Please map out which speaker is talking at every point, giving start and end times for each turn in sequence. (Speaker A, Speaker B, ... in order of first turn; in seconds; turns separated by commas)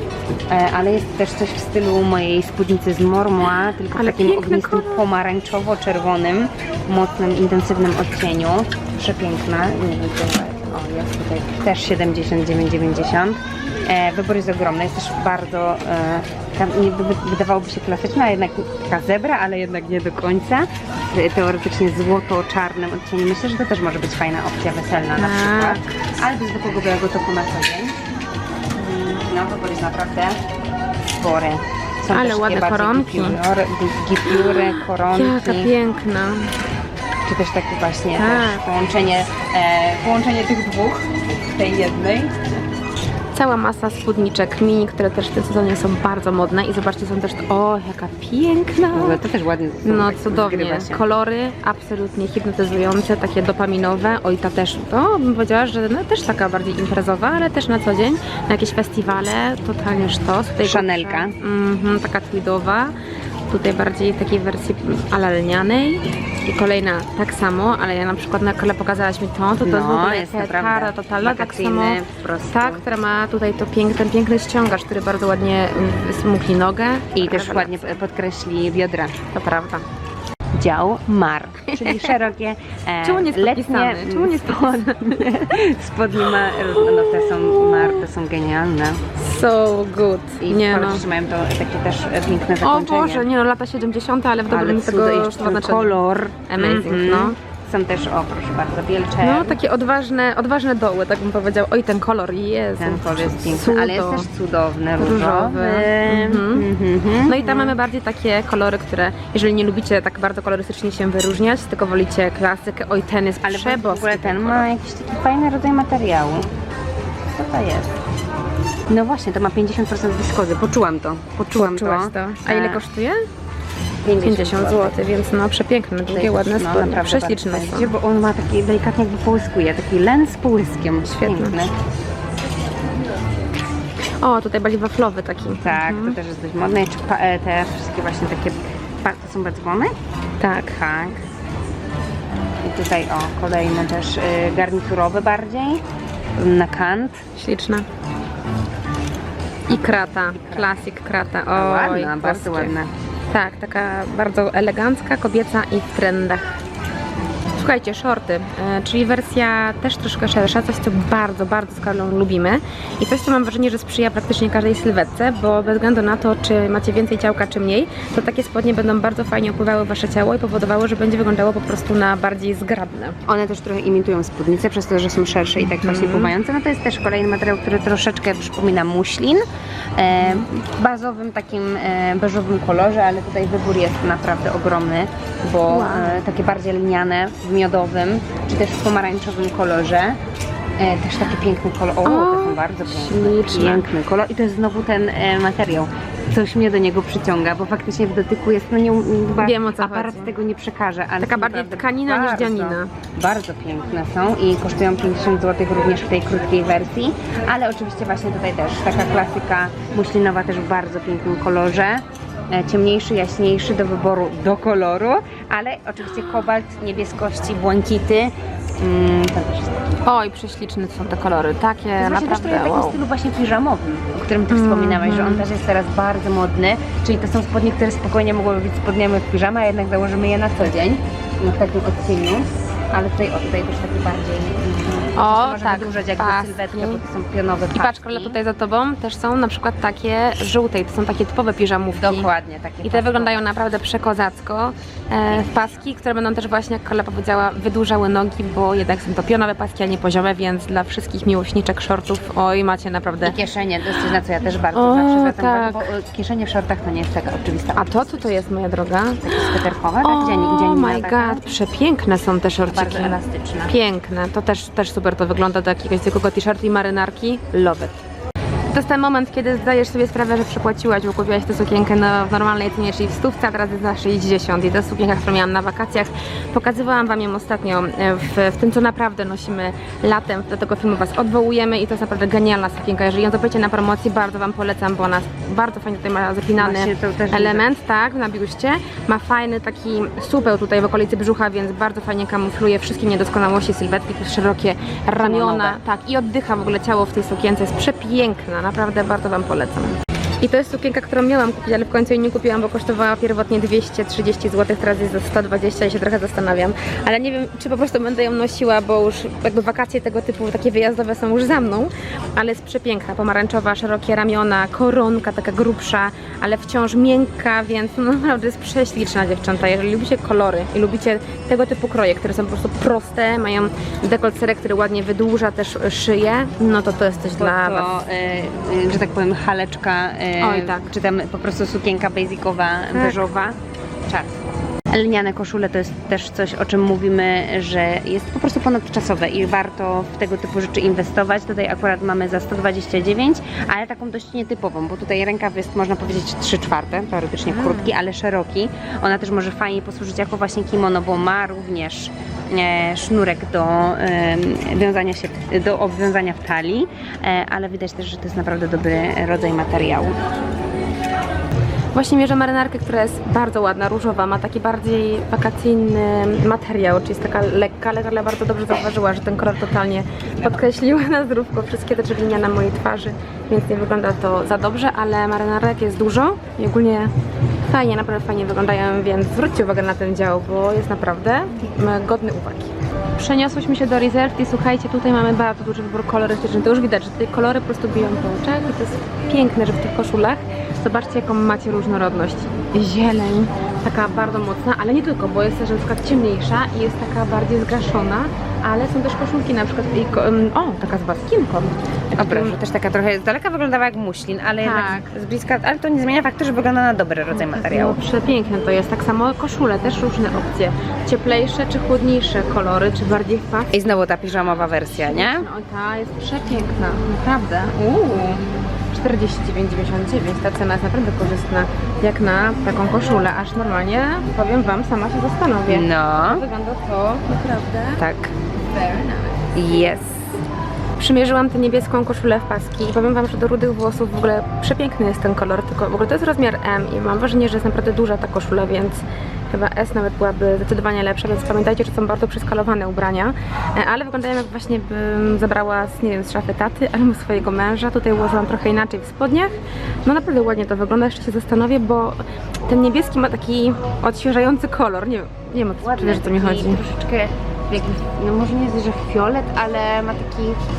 Speaker A: 0.5-28.0, Speaker B: 3.9-5.1, Speaker B: 25.2-25.9, Speaker A: 28.8-30.4, Speaker A: 31.1-35.7, Speaker B: 32.1-33.4, Speaker B: 34.3-36.5, Speaker A: 37.2-42.4, Speaker B: 38.1-38.7, Speaker B: 43.3-49.2, Speaker A: 48.9-51.0, Speaker B: 49.9-62.9, Speaker A: 60.6-61.4, Speaker B: 63.5-78.0, Speaker A: 69.6-72.8, Speaker A: 77.1-79.2, Speaker B: 79.3-79.8, Speaker A: 80.6-89.0, Speaker B: 81.7-82.2, Speaker B: 83.0-85.4, Speaker B: 86.2-88.0, Speaker B: 89.2-91.0, Speaker A: 90.4-93.3, Speaker B: 92.6-97.4, Speaker A: 94.5-99.6, Speaker B: 99.2-104.3, Speaker A: 102.8-107.8, Speaker B: 105.0-106.7, Speaker B: 107.3-114.7, Speaker A: 113.4-116.5, Speaker A: 117.3-117.9, Speaker A: 118.9-122.8, Speaker B: 121.5-123.2, Speaker A: 124.0-125.0, Speaker B: 124.2-127.9, Speaker A: 126.1-131.7, Speaker B: 131.1-131.6, Speaker B: 134.2-136.2, Speaker A: 135.6-139.9, Speaker B: 140.4-140.9, Speaker A: 140.7-141.2, Speaker A: 142.6-145.8, Speaker A: 146.4-147.2, Speaker B: 147.4-147.9, Speaker B: 149.7-152.8, Speaker A: 149.7-150.8, Speaker A: 151.5-152.9, Speaker B: 153.3-156.6, Speaker B: 157.6-173.2, Speaker A: 173.3-179.4, Speaker B: 175.6-176.3, Speaker A: 180.0-190.2, Speaker B: 185.7-186.2, Speaker A: 190.8-219.9, Speaker B: 192.1-193.9, Speaker B: 199.4-200.3, Speaker B: 201.2-202.9, Speaker B: 220.0-223.0, Speaker A: 222.0-238.4, Speaker B: 224.5-225.5, Speaker B: 235.2-237.0, Speaker B: 237.8-242.3, Speaker A: 241.9-243.4, Speaker B: 242.8-253.4, Speaker A: 253.2-258.5, Speaker B: 254.6-255.9, Speaker B: 257.8-267.5, Speaker A: 259.2-261.5, Speaker A: 262.6-263.8, Speaker A: 267.5-268.0, Speaker B: 268.7-327.9, Speaker A: 286.6-287.7, Speaker A: 295.2-295.8, Speaker A: 327.3-333.6, Speaker B: 330.4-330.9, Speaker B: 332.9-333.3, Speaker A: 334.1-360.2, Speaker B: 347.5-347.9, Speaker B: 361.9-377.1, Speaker B: 377.7-402.6, Speaker A: 402.2-408.0, Speaker B: 404.6-405.1, Speaker B: 407.3-413.9, Speaker A: 413.7-415.5, Speaker B: 414.9-428.1, Speaker A: 425.7-426.4, Speaker A: 428.0-428.3, Speaker B: 428.6-429.4, Speaker A: 429.6-430.4, Speaker B: 431.0-456.8, Speaker A: 455.8-460.6